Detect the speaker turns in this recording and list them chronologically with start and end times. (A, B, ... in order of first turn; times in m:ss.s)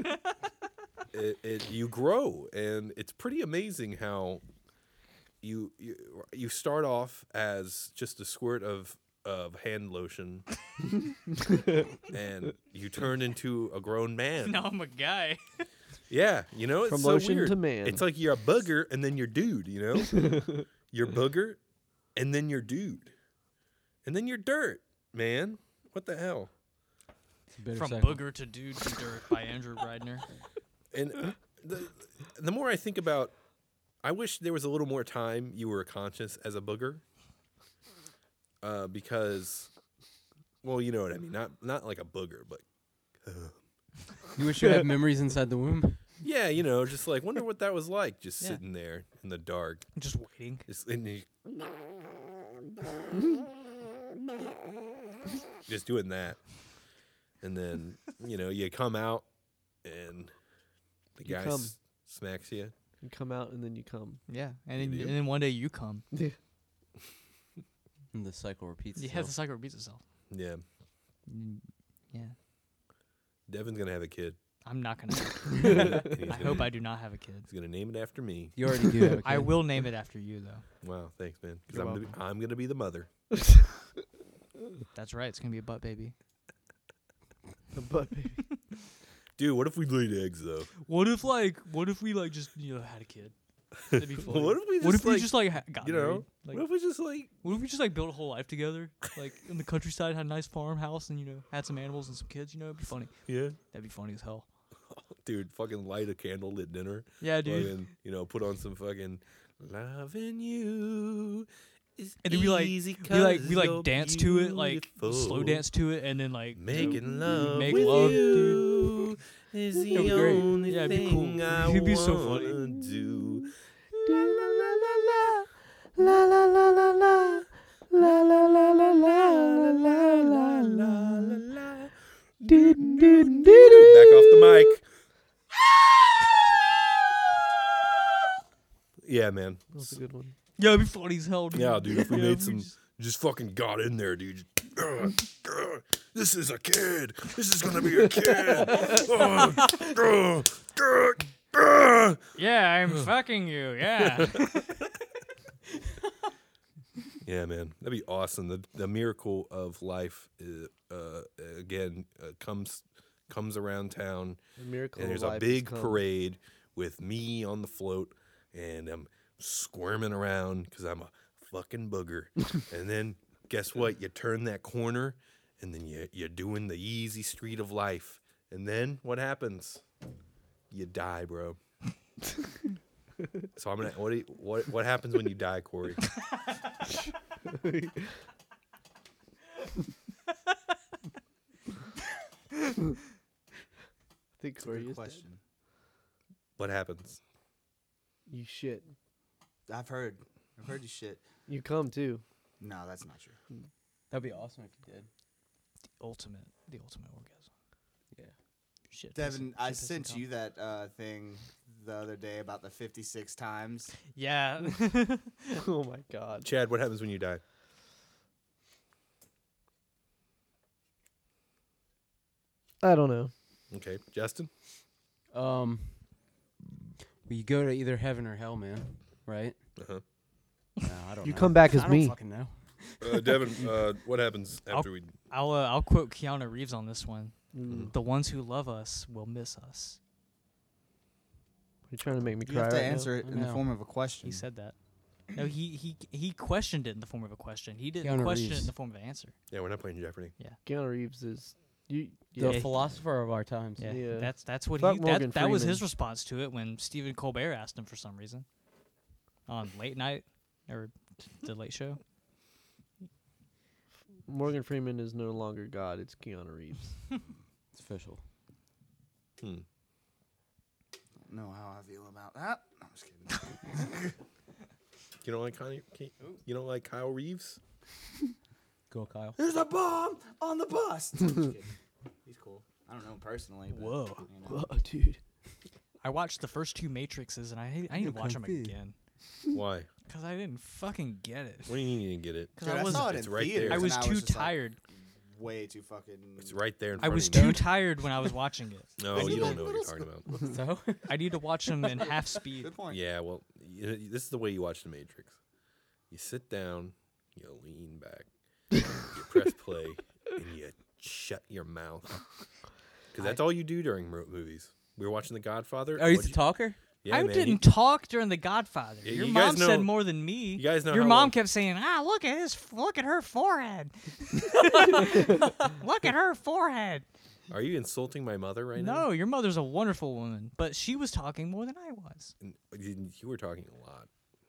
0:01.1-0:04.4 A
0:05.4-0:10.4 A
0:12.0-0:14.6 A
0:14.4-0:15.6 B
0:16.1-0:21.6 A
0:16.9-0:18.0 C
0:20.2-0:20.6 C
0:22.2-0:23.1 A
0:24.0-0:26.5 A
0:27.5-0:28.3 D
0:27.8-0:30.2 B
0:30.9-0:33.3 A
0:34.0-0:37.0 A
0:38.6-0:39.7 A
0:40.6-0:42.6 A
0:43.2-0:43.6 A
0:44.4-0:46.0 D
0:46.2-0:49.8 A
0:50.0-0:50.7 B
0:50.7-0:52.1 A
0:55.6-0:56.4 A
0:57.4-0:59.2 A
0:59.8-1:00.3 A
1:01.2-1:02.7 A
1:01.2-1:01.7 C
1:03.0-1:04.2 C
1:04.3-1:06.0 B
1:04.8-1:05.2 A
1:08.1-1:09.3 D
1:09.0-1:10.0 B
1:10.3-1:10.6 A
1:11.3-1:12.3 B
1:13.5-1:14.4 A
1:14.6-1:17.5 B
1:15.6-1:16.7 A
1:17.5-1:18.5 A
1:18.6-1:19.7 D
1:19.2-1:20.6 B
1:20.8-1:23.1 A
1:21.7-1:22.1 C
1:24.9-1:26.1 B
1:27.7-1:28.4 C
1:29.4-1:30.7 A
1:30.8-1:33.3 B
1:33.9-1:36.7 B
1:33.9-1:37.3 A
1:37.4-1:44.4 B
1:43.3-1:43.6 A
1:44.9-1:55.6 A
1:47.2-1:47.8 B
1:52.2-1:58.7 B
1:56.5-2:03.5 A
1:59.9-2:00.7 D
2:00.7-2:02.7 B
2:04.0-2:05.4 A
2:06.0-2:11.2 C
2:08.8-2:14.8 A
2:12.4-2:14.7 C
2:15.7-2:16.3 A
2:19.0-2:19.9 A
2:19.7-2:20.3 C
2:20.6-2:22.7 B
2:21.5-2:32.2 A
2:32.4-2:34.9 B
2:34.0-2:34.4 A
2:37.2-2:44.4 A
2:44.6-2:46.0 C
2:45.0-2:59.8 A
3:00.7-3:01.6 A
3:03.6-3:06.0 A
3:07.5-3:07.9 C
3:14.4-3:15.2 C
3:14.6-3:15.4 E
3:16.6-3:17.2 A
3:18.3-3:18.9 C
3:19.7-3:21.2 E
3:21.5-3:22.2 C
3:22.6-3:23.4 E
3:24.1-3:25.1 D
3:26.0-3:27.5 B
3:28.9-3:30.3 B
3:29.2-3:33.9 E
3:34.1-3:35.6 B
3:35.5-3:36.5 C
3:36.4-3:37.4 A
3:42.8-3:43.3 C
3:43.7-3:44.5 A
3:45.3-3:46.1 D
3:47.2-3:49.6 D
3:49.8-3:50.0 A
3:50.8-3:53.8 D
3:51.2-3:52.2 C
3:53.0-3:55.1 A
3:54.7-4:00.0 B
3:57.5-3:57.9 C
4:01.9-4:03.1 C
4:02.4-4:04.4 E
4:03.2-4:03.7 D
4:04.2-4:04.8 B
4:05.3-4:09.3 B
4:08.0-4:08.7 D
4:09.5-4:10.3 A
4:10.6-4:13.0 C
4:12.4-4:14.0 D
4:12.5-4:12.8 B
4:13.8-4:18.4 B
4:13.8-4:15.8 C
4:19.5-4:22.0 B
4:24.3-4:26.9 C
4:27.7-4:28.2 D
4:29.4-4:29.6 A
4:31.3-4:34.1 E
4:35.2-4:37.6 A
4:38.9-4:39.4 D
4:39.4-4:44.6 E
4:43.7-4:44.3 B
4:44.4-4:45.2 C
4:46.0-4:48.9 B
4:48.0-4:48.7 D
4:49.5-4:49.9 A
4:50.1-4:51.9 B
4:51.7-4:54.0 A
4:52.6-4:54.8 B
4:52.6-4:56.6 E
4:56.4-4:57.6 A
4:57.0-4:59.0 B
4:57.0-4:57.8 D
4:59.0-5:00.3 A
4:59.1-5:00.0 E
4:59.1-4:59.6 D
5:00.3-5:01.2 D
5:01.1-5:02.7 B
5:02.6-5:03.0 E
5:02.9-5:05.4 A
5:06.1-5:08.3 A
5:09.0-5:12.2 A
5:13.1-5:16.4 A
5:16.0-5:16.8 D
5:17.0-5:17.6 A
5:17.1-5:27.0 B
5:19.0-5:19.9 A
5:20.5-5:21.3 A
5:27.5-5:29.1 A
5:28.8-5:32.3 B
5:32.4-5:34.1 A